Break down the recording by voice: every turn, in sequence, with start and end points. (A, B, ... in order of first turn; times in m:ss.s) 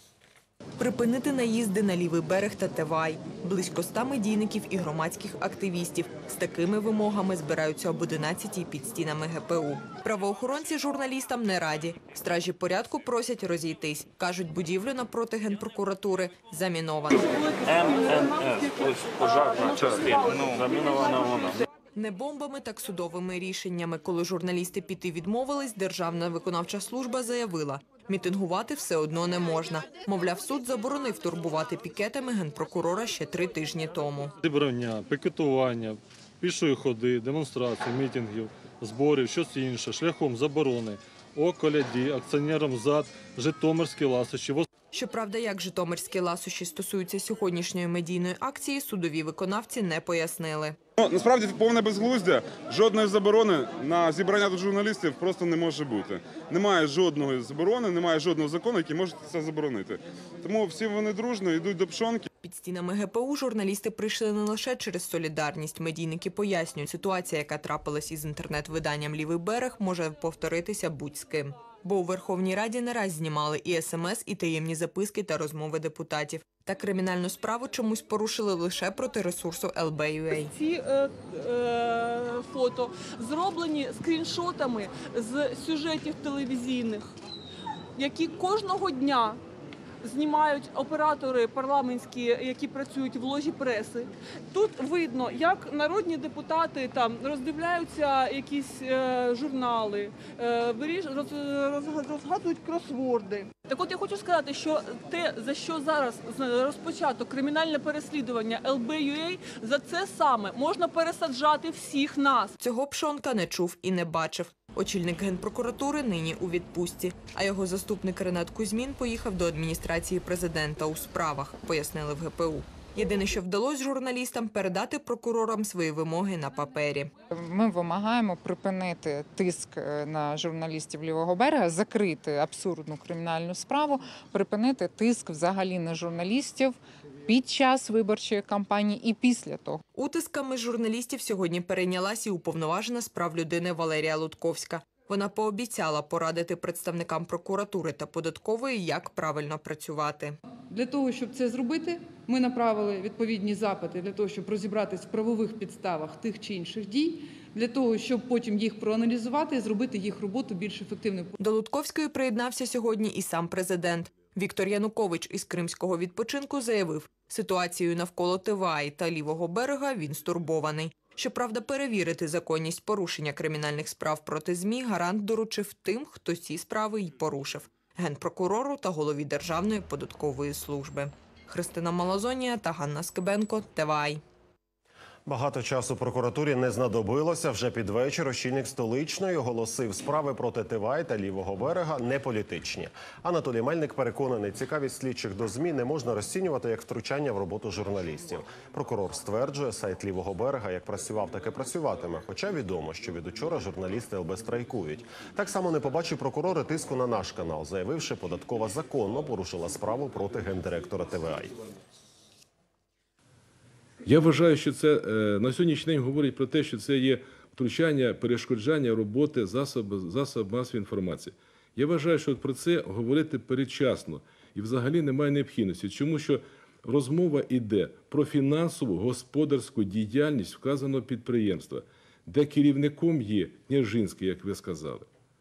0:00.8-0:17.4 A
0:17.7-0:21.6 B
0:21.9-0:34.3 A
0:34.4-0:44.6 C
0:44.9-0:50.8 A
0:51.0-1:02.2 D
1:02.4-1:20.5 A
1:20.4-1:27.1 E
1:28.0-1:29.4 E
1:30.0-1:52.6 E
1:52.6-2:07.1 A
2:07.3-2:19.8 F
2:19.9-2:30.4 A
2:30.7-2:41.3 G
2:41.4-3:04.2 A
3:05.2-3:31.5 H
3:34.0-3:55.0 I